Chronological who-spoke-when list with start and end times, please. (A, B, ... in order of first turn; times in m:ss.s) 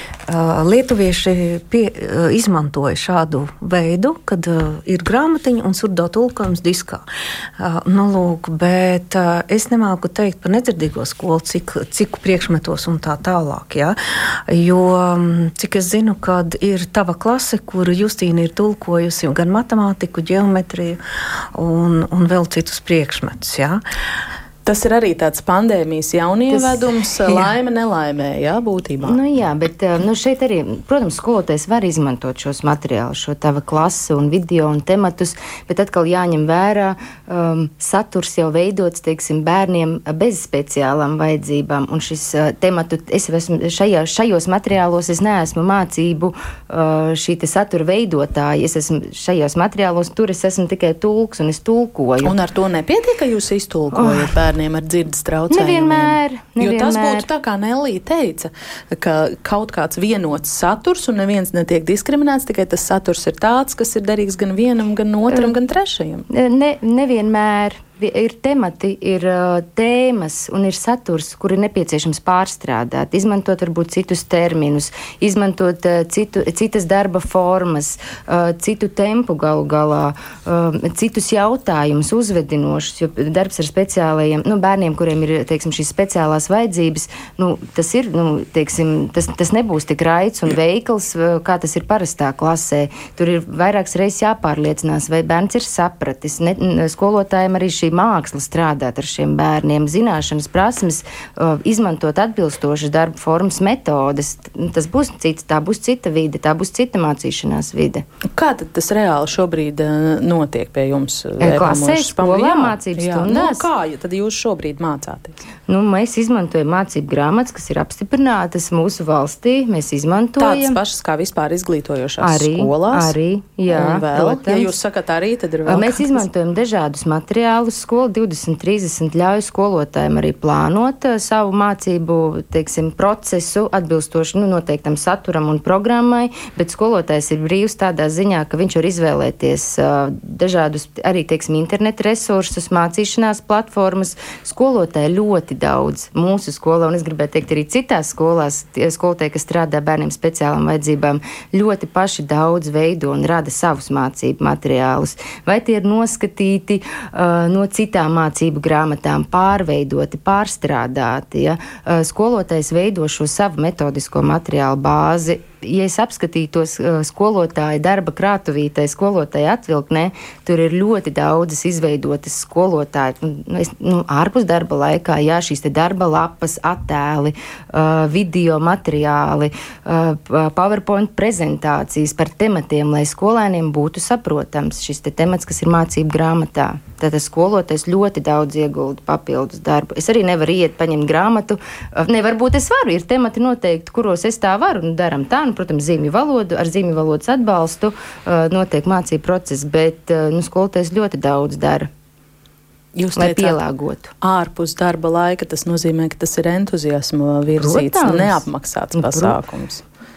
0:00.3-0:07.0 A
0:07.6-0:21.0 A
0:21.5-0:23.8 A
0:24.7-0:29.2 B
0:26.5-0:27.3 C
0:29.0-0:52.4 C
0:52.2-1:06.2 B
0:53.9-0:54.3 C
0:55.5-0:57.3 C
1:05.3-1:05.5 C
1:06.3-1:48.0 C
1:48.4-1:55.4 B
1:51.4-1:53.7 C
1:55.7-2:00.8 C
2:00.4-2:03.2 B
2:02.2-2:04.7 C
2:03.7-2:06.3 B
2:05.6-3:21.9 C
3:23.0-3:23.6 B
3:23.2-3:24.1 C
3:24.2-3:29.8 B
3:27.6-3:29.4 C